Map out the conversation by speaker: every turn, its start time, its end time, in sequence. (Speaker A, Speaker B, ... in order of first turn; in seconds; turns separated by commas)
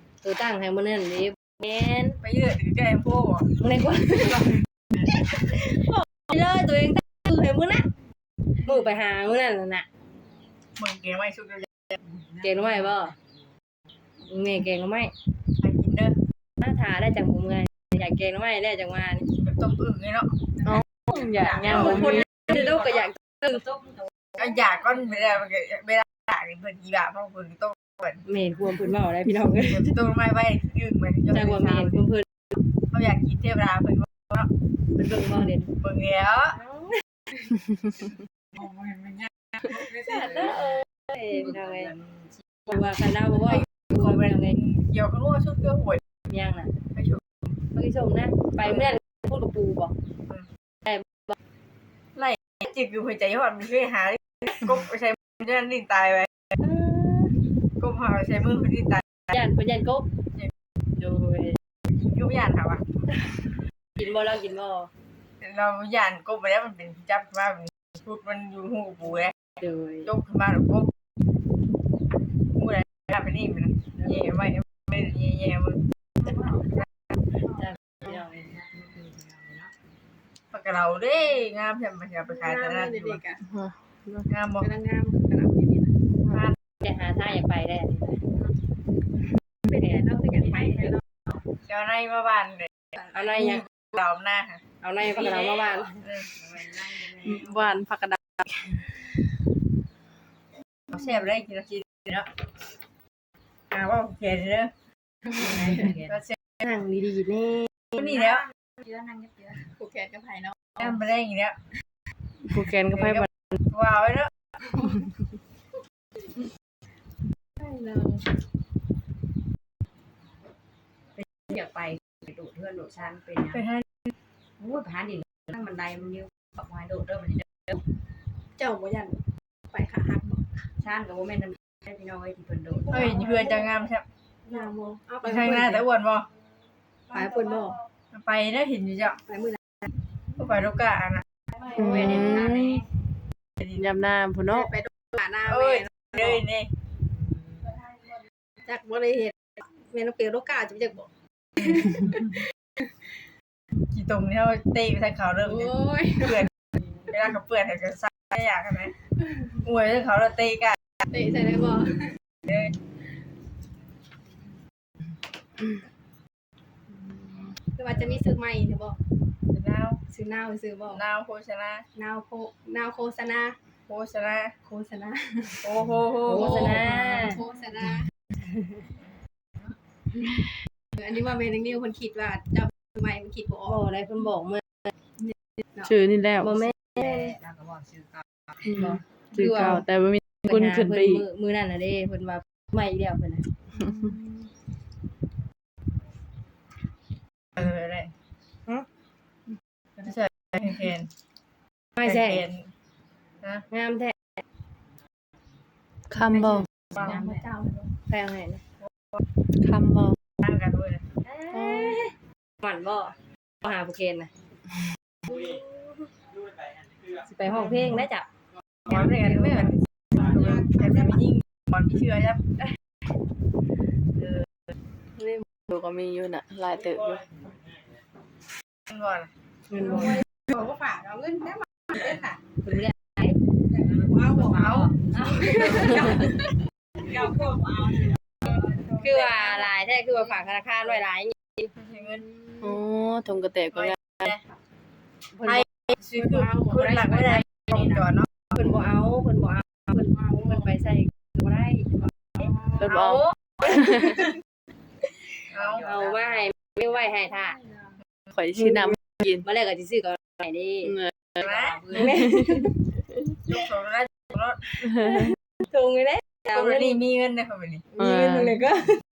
Speaker A: 0.2-2.2, Speaker B: 2.2-3.6, Speaker A: 3.6-7.9, Speaker A: 8.6-9.9, Speaker B: 10.8-12.0, Speaker A: 12.4-13.2, Speaker A: 14.3-15.1, Speaker B: 15.6-16.2, Speaker A: 16.6-19.2, Speaker B: 19.3-20.3, Speaker C: 20.6-22.3, Speaker D: 21.1-24.4, Speaker B: 21.6-22.2, Speaker A: 22.0-23.1, Speaker B: 24.4-28.2, Speaker A: 28.2-30.0, Speaker B: 29.6-32.0, Speaker A: 31.3-32.3, Speaker B: 32.9-34.5, Speaker A: 35.0-35.7, Speaker B: 35.8-36.6, Speaker A: 36.5-37.0, Speaker D: 38.5-40.6, Speaker A: 39.8-41.9, Speaker D: 41.4-42.7, Speaker A: 42.7-44.6, Speaker B: 43.5-46.0, Speaker A: 46.3-46.7, Speaker B: 46.9-47.2, Speaker A: 47.8-49.9, Speaker A: 50.9-51.4, Speaker B: 52.1-56.4, Speaker A: 56.6-57.3, Speaker B: 57.8-59.3, Speaker A: 59.3-60.1, Speaker A: 61.0-61.6, Speaker B: 61.9-62.8, Speaker A: 64.0-64.9, Speaker B: 65.4-69.3, Speaker A: 69.6-70.1, Speaker B: 70.1-70.9, Speaker B: 72.5-75.8, Speaker D: 76.2-76.7, Speaker D: 78.0-79.7, Speaker B: 80.5-83.2, Speaker E: 82.3-83.4, Speaker C: 83.4-84.3, Speaker B: 84.3-84.7, Speaker E: 84.6-85.9, Speaker B: 86.3-86.6, Speaker A: 86.8-88.2, Speaker E: 89.7-91.0, Speaker B: 91.7-93.0, Speaker A: 93.1-93.7, Speaker B: 93.9-94.6, Speaker A: 94.8-96.0, Speaker D: 95.0-97.7, Speaker B: 96.0-96.3, Speaker C: 97.2-98.9, Speaker B: 100.9-102.3, Speaker B: 103.7-104.7, Speaker D: 105.4-106.2, Speaker B: 106.1-106.4, Speaker A: 106.6-107.7, Speaker D: 108.0-109.6, Speaker B: 108.0-108.4, Speaker E: 109.7-110.8, Speaker B: 110.8-111.6, Speaker C: 112.5-113.3, Speaker B: 112.9-114.3, Speaker E: 117.6-118.2, Speaker D: 121.4-123.7, Speaker B: 123.5-124.1, Speaker D: 124.6-127.8, Speaker E: 128.6-130.5, Speaker D: 130.8-133.0, Speaker E: 132.9-133.6, Speaker B: 132.9-134.1, Speaker E: 134.4-135.8, Speaker B: 135.2-136.3, Speaker E: 137.1-137.8, Speaker B: 138.1-139.2, Speaker E: 139.3-139.9, Speaker B: 140.4-141.2, Speaker D: 141.7-142.8, Speaker C: 141.8-142.8, Speaker C: 143.7-144.7, Speaker E: 144.5-146.1, Speaker B: 145.4-146.7, Speaker E: 148.6-152.4, Speaker B: 153.9-156.5, Speaker E: 155.5-156.4, Speaker B: 157.1-158.9, Speaker B: 159.6-160.8, Speaker E: 161.1-162.1, Speaker B: 162.5-162.7, Speaker E: 167.7-169.0, Speaker B: 169.5-170.0, Speaker E: 170.1-171.0, Speaker B: 170.9-171.9, Speaker E: 171.9-173.6, Speaker B: 173.9-174.6, Speaker E: 174.6-175.6, Speaker B: 175.6-177.0, Speaker A: 176.3-177.4, Speaker E: 176.4-178.1, Speaker A: 178.5-178.8, Speaker E: 180.9-183.8, Speaker A: 183.7-184.9, Speaker E: 185.2-185.9, Speaker C: 185.8-186.7, Speaker A: 186.4-187.3, Speaker D: 187.0-188.6, Speaker C: 188.7-191.2, Speaker A: 188.8-189.8, Speaker A: 190.5-193.4, Speaker E: 193.8-194.2, Speaker B: 197.6-198.1, Speaker B: 200.0-201.1, Speaker A: 202.0-202.4, Speaker B: 202.0-202.7, Speaker A: 203.7-204.2, Speaker C: 206.1-206.7, Speaker E: 206.3-207.9, Speaker A: 208.1-208.6, Speaker C: 209.6-210.2, Speaker B: 210.4-211.0, Speaker A: 211.2-214.3, Speaker C: 211.5-212.0, Speaker A: 215.3-216.1, Speaker A: 217.2-218.3, Speaker B: 218.9-222.4, Speaker E: 219.1-219.6, Speaker E: 220.4-220.8, Speaker A: 225.2-225.4, Speaker C: 225.7-227.4, Speaker B: 228.9-229.3, Speaker A: 229.7-230.2, Speaker E: 230.0-232.4, Speaker A: 232.6-233.4, Speaker D: 233.7-236.4, Speaker E: 233.9-234.8, Speaker A: 235.2-236.3, Speaker E: 235.4-236.3, Speaker D: 237.0-238.6, Speaker B: 238.5-239.6, Speaker A: 239.0-241.7, Speaker B: 241.8-242.2, Speaker E: 242.2-242.6, Speaker C: 242.6-244.3, Speaker B: 243.8-244.4, Speaker B: 245.5-248.5, Speaker E: 246.1-247.0, Speaker D: 247.7-248.0, Speaker A: 248.5-252.1, Speaker E: 250.0-250.6, Speaker E: 252.4-252.8, Speaker B: 252.8-253.9, Speaker C: 252.8-254.2, Speaker A: 253.9-254.2, Speaker D: 255.5-256.5, Speaker B: 255.5-255.8, Speaker A: 255.8-257.6, Speaker E: 257.6-257.9, Speaker C: 258.4-259.4, Speaker A: 259.4-261.0, Speaker C: 260.9-261.4, Speaker B: 261.4-261.8, Speaker D: 261.4-262.3, Speaker A: 261.9-262.7, Speaker C: 262.0-262.7, Speaker B: 263.5-264.6, Speaker C: 264.8-265.3, Speaker A: 265.0-267.0, Speaker B: 266.5-267.9, Speaker A: 268.0-269.0, Speaker C: 268.0-268.6